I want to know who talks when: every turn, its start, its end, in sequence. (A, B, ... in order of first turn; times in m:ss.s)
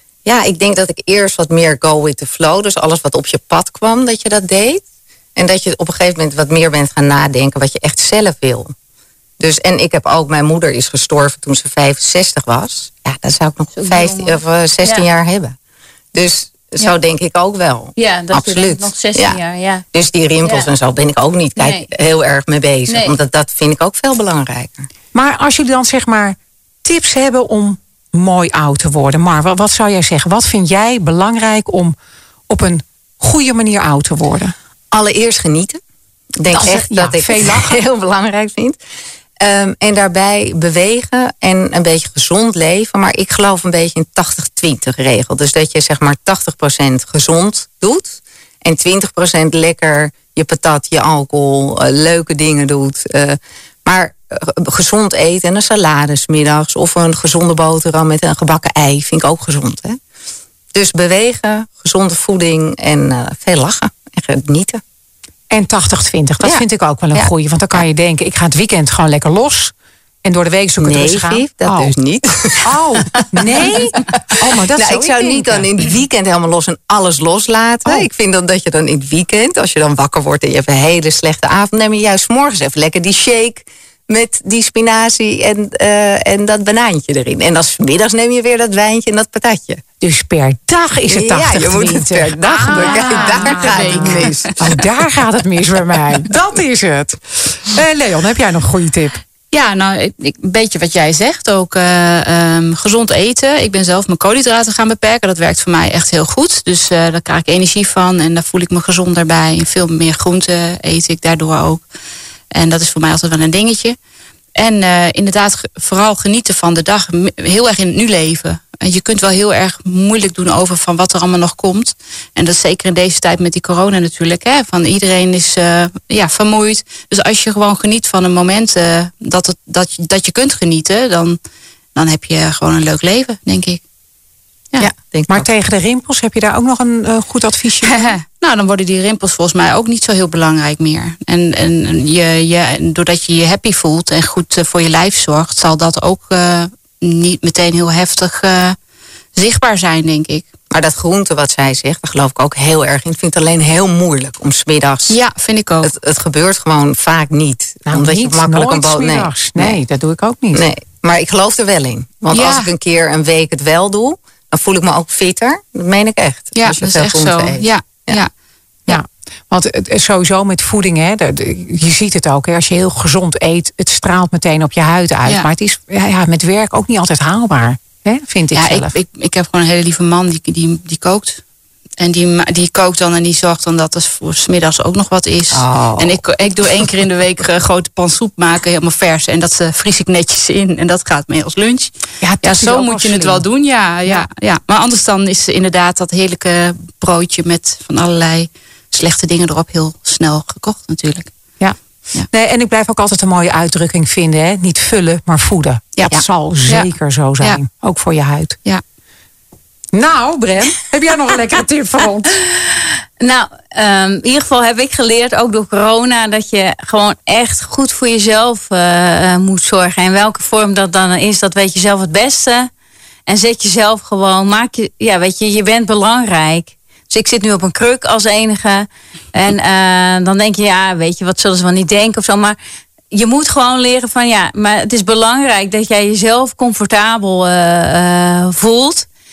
0:00.2-0:04.8 A
0:05.4-0:08.7 A
0:09.4-0:15.6 A
0:13.8-0:15.0 B
0:16.1-0:19.4 A
0:18.0-0:19.8 B
0:19.9-0:24.9 A
0:20.4-0:20.7 B
0:21.6-0:21.9 B
0:22.9-0:23.2 B
0:25.1-0:31.9 C
0:32.5-0:34.5 C
0:34.9-0:35.8 A
0:36.4-0:38.8 A
0:36.5-0:37.8 C
0:39.4-1:00.0 A
1:00.7-1:04.8 A
1:05.5-1:09.7 C
1:06.4-1:07.8 A
1:10.2-1:12.0 C
1:10.8-1:13.3 A
1:12.6-1:15.7 C
1:14.3-1:29.8 A
1:30.0-1:39.2 C
1:31.1-1:34.8 A
1:32.6-1:34.6 D
1:39.5-1:51.8 D
1:52.5-1:54.0 D
1:54.6-2:11.4 D
2:12.0-2:13.8 D
2:14.8-2:15.5 A
2:15.3-2:18.1 C
2:17.8-2:28.8 D
2:29.4-2:30.5 D
2:30.7-2:35.2 A
2:35.1-2:35.9 D
2:35.8-2:39.8 A
2:37.9-2:40.7 C
2:40.5-2:48.2 A
2:42.3-2:42.7 D
2:46.6-2:48.3 D
2:48.9-2:59.0 C
2:58.5-3:01.4 D
3:02.0-3:21.3 D
3:05.5-3:06.2 A
3:12.2-3:13.4 C
3:22.3-3:28.6 C
3:26.0-3:26.9 D
3:29.9-3:32.4 C
3:33.2-3:42.7 B
3:43.3-3:52.6 B
3:53.1-3:59.1 B